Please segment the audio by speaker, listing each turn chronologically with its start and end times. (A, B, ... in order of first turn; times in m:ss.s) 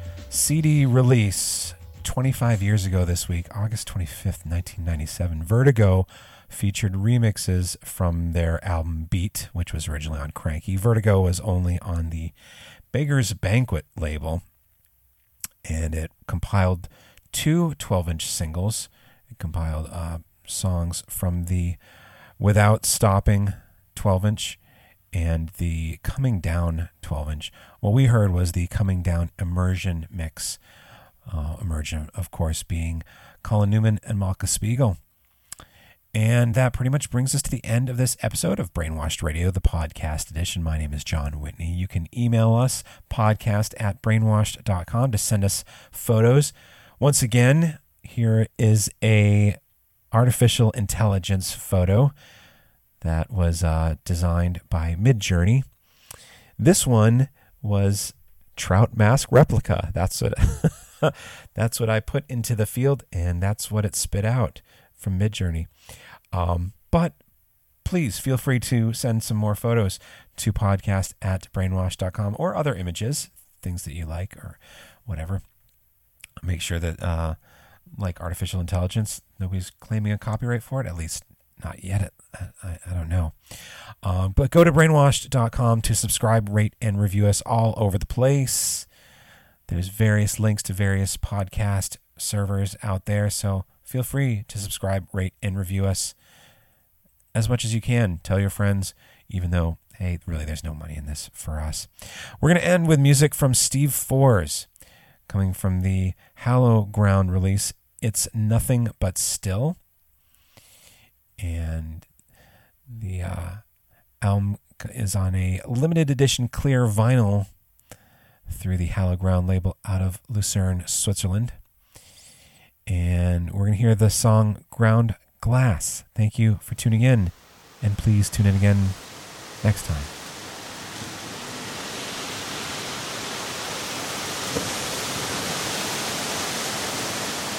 0:00.3-0:12.3 A
0:12.9-0:14.4 A
0:15.6-0:21.8 A
0:22.4-0:24.6 A
0:25.1-0:30.6 A
0:31.2-0:35.0 A
0:36.1-0:49.6 A
0:50.1-0:52.1 A
0:53.0-0:55.6 A
0:56.6-1:05.7 A
1:06.3-1:07.2 A
1:07.8-1:15.4 A
1:16.4-1:17.4 A
1:18.0-1:28.9 A
1:29.7-1:36.1 A
1:37.3-1:44.7 A
1:45.3-1:49.8 A
1:51.4-1:52.1 A
1:52.9-1:53.6 A
1:54.2-1:57.5 A
1:58.5-2:01.6 A
2:02.9-2:09.0 A
2:09.6-2:10.1 A